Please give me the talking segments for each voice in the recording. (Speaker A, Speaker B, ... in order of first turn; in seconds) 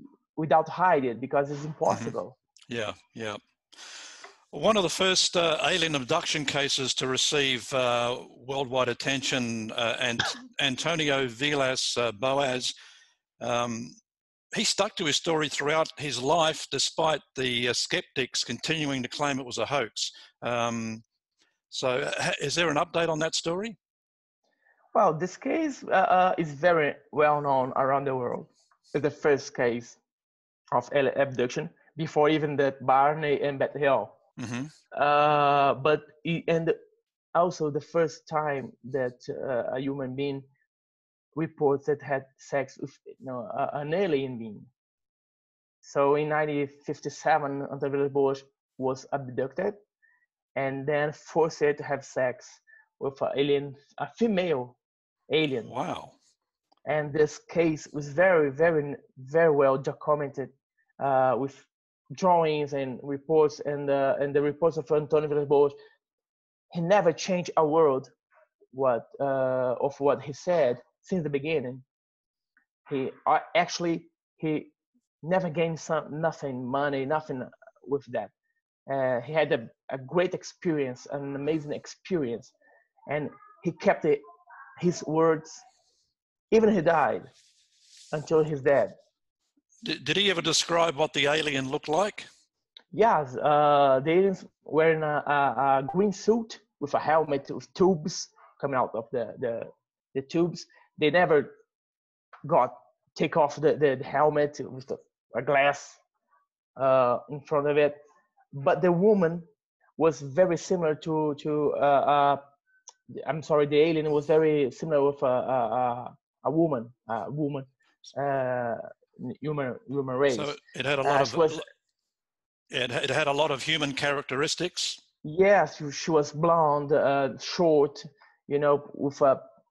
Speaker A: 0.3-2.4, 24.9-30.0, 30.7-34.1, 34.9-36.8, 37.3-40.5, 41.3-44.7, 45.8-49.7, 50.5-54.8, 55.3-55.7, 56.9-65.7, 66.7-68.1, 68.7-71.8, 72.8-74.7, 75.2-78.3, 78.9-82.5, 83.1-84.2, 84.8-85.6, 86.5-87.3, 88.1-88.9, 92.9-101.5, 102.4-106.0, 106.8-107.9, 108.5-109.4, 110.0-112.4, 113.1-121.6, 125.2-129.4
Speaker B: 1.9-2.1, 2.7-4.0, 4.5-12.7, 13.4-14.0, 14.5-21.0, 21.7-23.8, 34.4-34.7, 55.6-56.1, 89.8-92.3, 120.3-121.6, 122.7-125.0